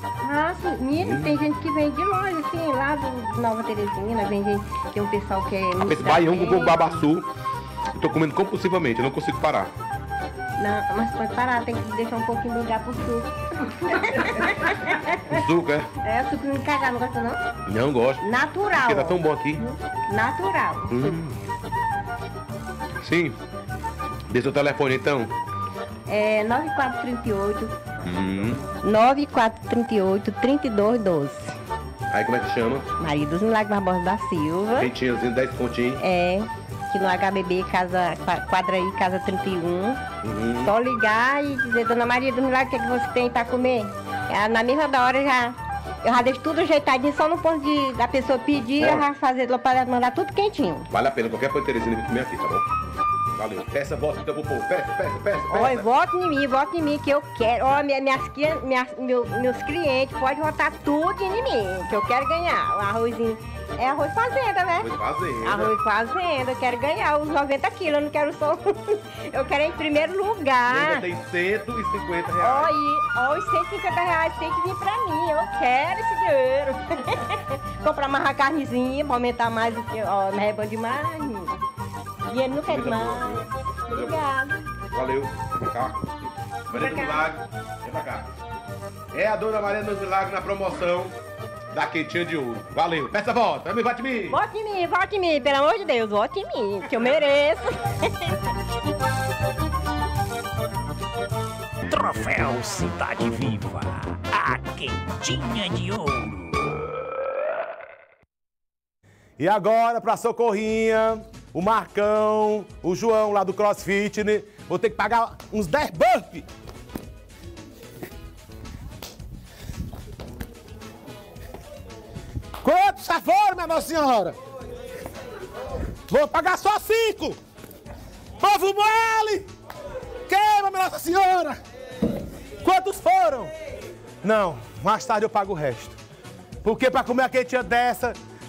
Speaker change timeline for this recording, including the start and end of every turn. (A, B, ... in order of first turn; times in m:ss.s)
0:00.2-0:07.0 A
0:01.0-0:01.4 B
0:05.8-0:07.3 B
0:07.9-0:09.7 B
0:10.6-0:15.4 A
0:15.2-0:15.9 B
0:16.0-0:17.4 A
0:17.6-0:18.2 B
0:18.2-0:21.2 A
0:18.8-0:19.6 B
0:20.9-0:21.4 B
0:23.0-0:23.4 B
0:24.3-0:25.3 B
0:26.1-0:27.9 A
0:28.0-0:28.6 B
0:28.8-0:31.6 A
0:32.1-0:32.9 B
0:33.0-0:34.9 A
0:34.7-0:36.0 B
0:36.0-0:40.0 A
0:40.2-0:40.7 B
0:40.6-0:50.9 A
0:48.8-0:49.1 B
0:50.9-0:52.7 B
0:53.3-0:55.9 B
0:55.5-1:11.0 A
1:04.8-1:05.7 B
1:10.6-1:12.7 B
1:12.4-1:21.6 A
1:22.2-1:24.7 A
1:22.6-1:24.2 B
1:24.8-1:26.0 B
1:26.7-1:28.3 B
1:26.7-1:27.3 A
1:29.1-1:31.1 B
1:31.7-1:34.4 B
1:34.3-1:38.4 A
1:41.9-1:46.7 C
1:49.4-1:56.5 B
2:02.6-2:04.4 B
2:06.1-2:07.4 B
2:08.4-2:09.5 B
2:10.3-2:11.6 B
2:12.6-2:13.5 B
2:14.2-2:16.0 B
2:16.6-2:18.2 B